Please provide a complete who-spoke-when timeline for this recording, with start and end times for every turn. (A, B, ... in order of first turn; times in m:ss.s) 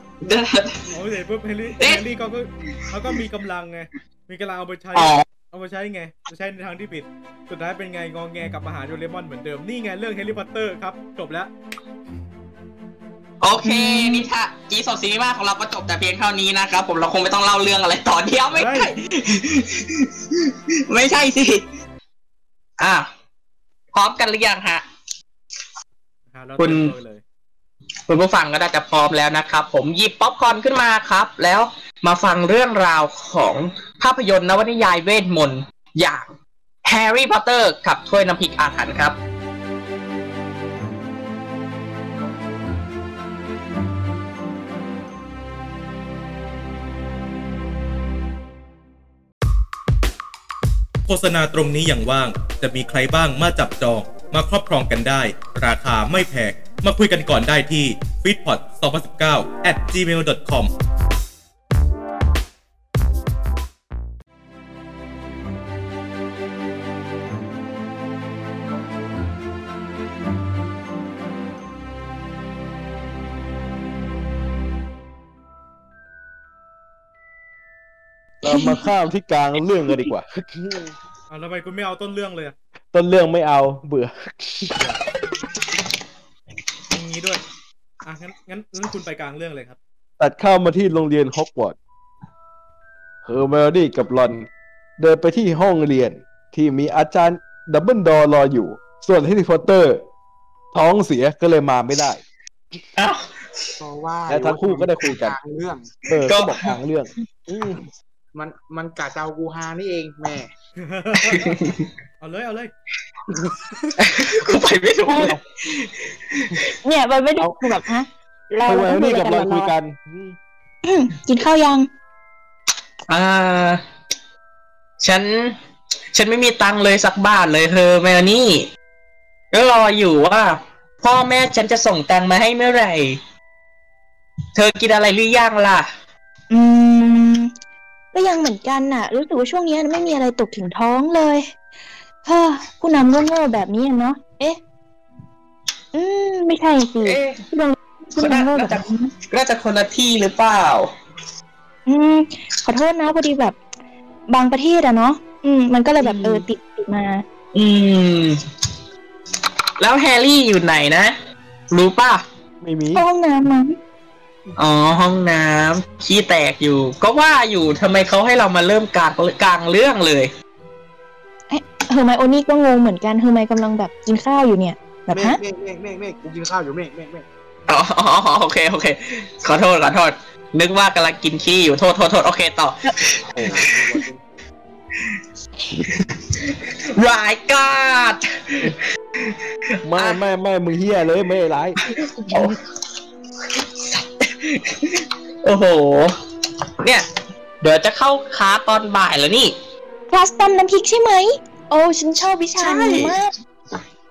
0:00.2-0:00.8 A
0:00.9-0:11.5 B
0:04.9-0:05.2 A
0:13.4-0:21.6 A
0:13.6-0:14.2 C
0:18.5-0:18.9 B
0:22.8-0:23.1 A
0:23.9-0:24.8 A
0:26.3-0:27.2 B
0:26.6-0:26.9 A
0:28.1-0:36.3 A
0:36.8-0:39.2 A
0:51.1-1:00.7 B
1:18.4-1:21.0 D
1:18.5-1:18.7 C
1:21.3-1:22.5 B
1:22.9-1:24.7 D
1:26.9-1:27.4 B
1:28.0-1:29.8 B
1:30.2-1:31.8 D
1:33.2-1:34.5 D
1:35.0-1:40.0 D
1:40.7-1:42.2 D
1:43.0-1:43.8 A
1:43.8-1:45.9 E
1:44.3-1:45.4 D
1:46.1-1:46.7 A
1:46.1-1:47.8 D
1:48.3-1:50.5 E
1:50.8-1:51.5 B
1:51.2-1:51.9 A
1:52.2-1:52.7 B
1:53.3-1:56.6 A
1:55.1-1:55.4 C
1:56.8-1:59.7 C
1:58.7-2:00.4 D
2:00.8-2:01.9 C
2:03.1-2:03.8 A
2:05.0-2:05.6 A
2:06.1-2:08.7 A
2:09.5-2:13.2 A
2:14.5-2:15.9 A
2:16.5-2:17.5 C
2:18.1-2:21.4 C
2:22.2-2:24.6 C
2:25.9-2:29.1 C
2:27.0-2:27.4 A
2:28.2-2:30.9 A
2:31.9-2:33.6 C
2:34.3-2:37.2 C
2:36.0-2:36.4 A
2:37.5-2:38.4 A
2:39.8-2:41.1 A
2:41.7-2:42.2 A
2:42.6-2:43.0 D
2:42.9-2:43.8 C
2:44.6-2:50.3 A
2:51.5-2:55.4 C
2:55.1-2:57.2 E
2:57.7-3:03.4 A
3:03.3-3:03.6 D
3:03.4-3:04.2 E
3:05.9-3:09.4 A
3:09.8-3:12.6 D
3:11.8-3:12.6 A
3:13.6-3:16.1 A
3:16.8-3:17.0 A
3:17.6-3:19.6 A
3:20.1-3:23.3 C
3:22.6-3:23.2 A